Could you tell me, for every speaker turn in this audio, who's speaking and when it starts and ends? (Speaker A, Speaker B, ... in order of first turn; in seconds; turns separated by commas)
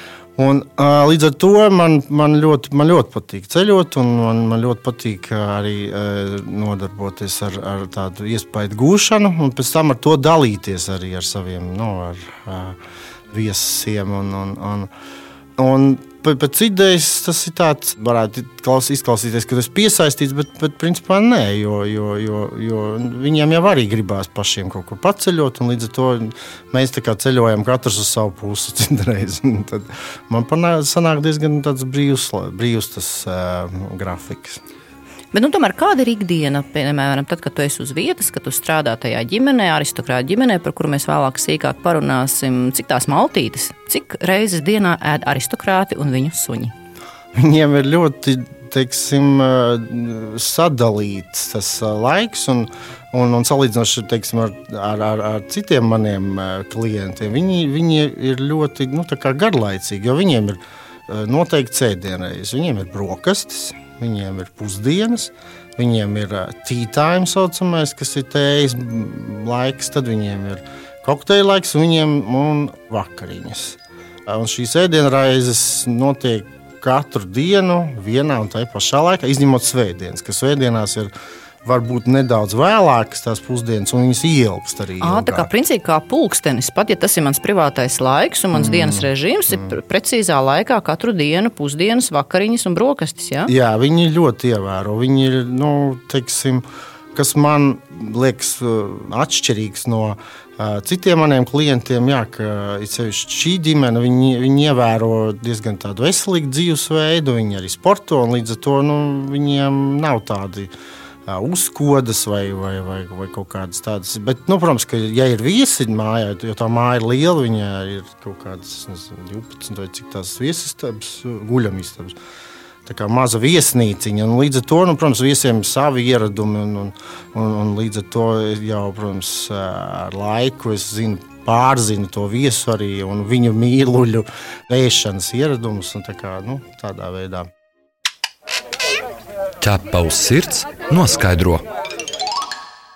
Speaker A: 0.4-12.8, Speaker A: 13.3-14.9, Speaker A: 15.6-34.6, Speaker B: 35.3-46.7, Speaker A: 47.4-81.1, Speaker A: 81.6-85.5, Speaker B: 85.0-93.5, Speaker A: 88.5-89.8, Speaker A: 93.5-110.7, Speaker A: 111.3-122.2, Speaker A: 122.9-137.5, Speaker C: 139.6-141.6